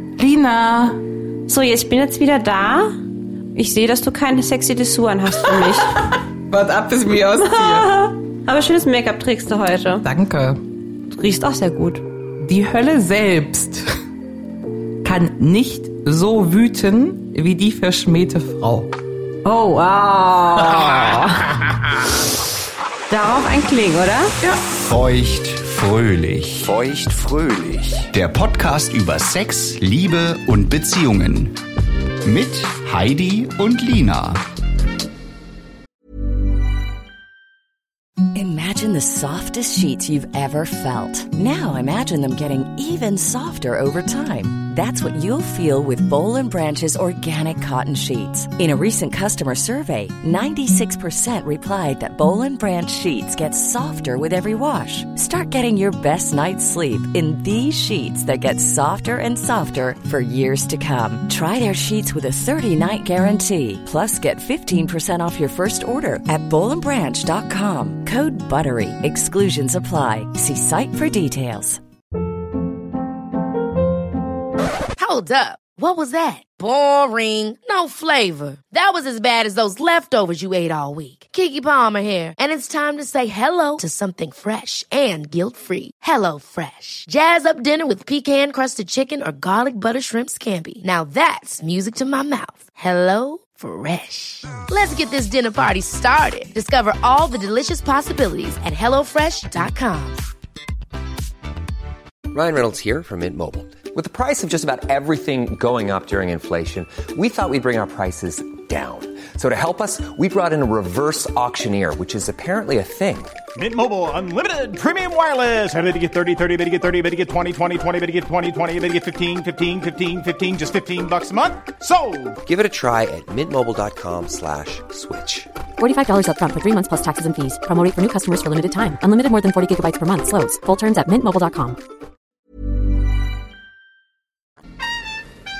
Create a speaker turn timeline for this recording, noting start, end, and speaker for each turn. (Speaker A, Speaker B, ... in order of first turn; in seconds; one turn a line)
Speaker A: 0.2-1.0
Speaker B: 1.5-3.0
Speaker B: 3.5-6.1
Speaker A: 5.6-8.0
Speaker B: 7.4-10.0
Speaker A: 10.0-10.6
Speaker B: 11.1-12.0
Speaker A: 12.4-13.9
Speaker A: 15.0-18.9
Speaker B: 19.4-21.6
Speaker A: 20.7-21.2
Speaker B: 23.1-24.3
Speaker C: 24.7-31.6
Speaker C: 32.2-34.4
Speaker D: 38.3-71.8
Speaker E: 75.0-100.2
Speaker F: 102.3-113.3
Speaker G: 113.5-122.4
Speaker F: 122.4-125.5
Speaker H: 125.8-131.8